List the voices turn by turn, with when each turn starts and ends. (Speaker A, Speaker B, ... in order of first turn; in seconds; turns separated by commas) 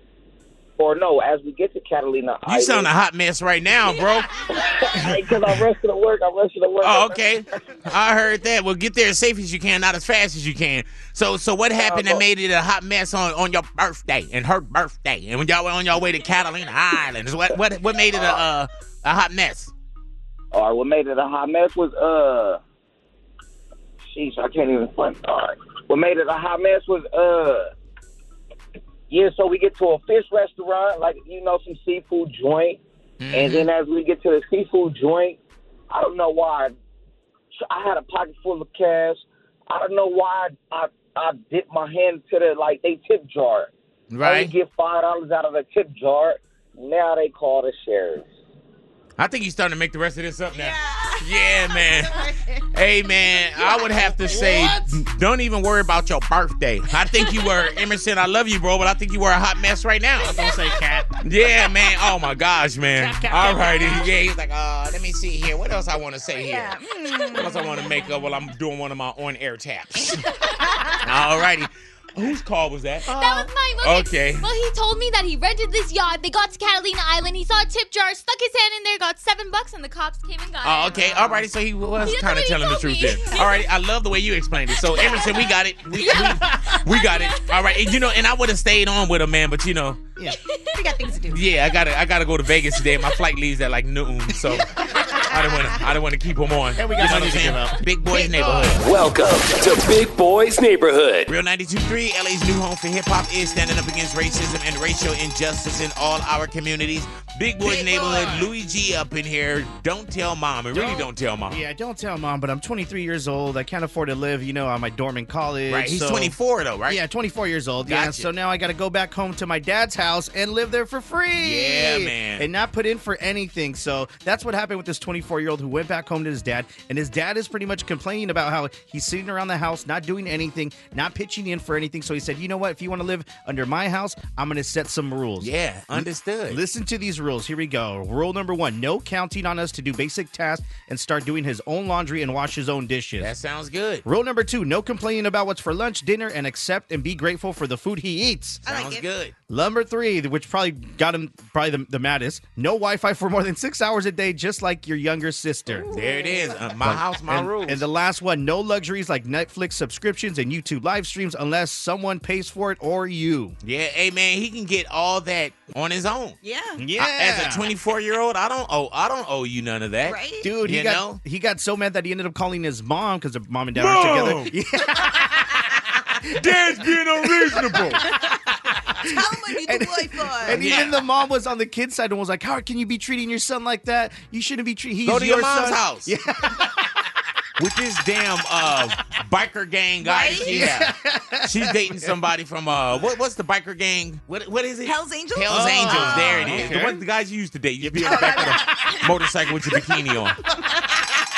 Speaker A: 0.8-2.9, Speaker B: 2.5-4.3, Speaker A: 4.5-7.3, Speaker B: 4.9-5.6, Speaker B: 6.8-19.7, Speaker A: 11.7-12.2, Speaker A: 18.1-18.4, Speaker A: 20.5-22.6, Speaker A: 24.1-27.7, Speaker A: 29.1-32.8, Speaker B: 33.2-33.7, Speaker A: 33.3-36.7, Speaker A: 37.5-48.3, Speaker B: 44.1-44.5, Speaker B: 49.2-52.1, Speaker C: 50.5-52.6, Speaker B: 52.7-60.4, Speaker C: 53.6-54.0, Speaker D: 54.2-54.9, Speaker D: 60.2-61.2, Speaker B: 61.2-66.8, Speaker D: 63.0-63.9, Speaker C: 66.4-67.9, Speaker B: 67.3-70.2, Speaker C: 70.6-71.0, Speaker B: 71.0-73.1, Speaker E: 73.1-81.4, Speaker D: 73.1-73.5, Speaker B: 73.8-74.4, Speaker B: 80.6-90.0, Speaker E: 82.0-83.5, Speaker C: 90.2-91.4, Speaker B: 91.3-98.8, Speaker C: 95.0-95.6, Speaker D: 96.8-97.8, Speaker F: 98.7-101.3, Speaker B: 101.3-111.6, Speaker D: 107.6-108.5, Speaker D: 110.7-116.3, Speaker B: 115.7-117.0, Speaker D: 116.8-143.3, Speaker B: 117.8-118.3, Speaker B: 121.4-122.5, Speaker B: 135.4-136.6, Speaker B: 143.2-144.0, Speaker D: 144.0-148.6, Speaker C: 148.7-149.1, Speaker B: 148.7-149.3, Speaker D: 149.5-155.9, Speaker B: 155.9-157.8, Speaker C: 155.9-156.3, Speaker D: 156.8-163.5, Speaker B: 163.6-166.3, Speaker C: 166.4-166.8, Speaker D: 166.8-167.7, Speaker B: 167.0-171.2, Speaker C: 170.0-170.5, Speaker D: 170.4-175.6, Speaker B: 173.7-174.5, Speaker D: 176.2-178.3, Speaker B: 176.3-178.0, Speaker D: 179.0-186.7, Speaker C: 179.0-180.6, Speaker B: 180.5-181.0, Speaker B: 185.1-186.1, Speaker B: 187.6-200.4, Speaker C: 190.0-190.7, Speaker D: 190.3-192.1, Speaker C: 194.8-196.9, Speaker D: 195.5-197.0, Speaker D: 197.8-199.0, Speaker C: 198.0-199.1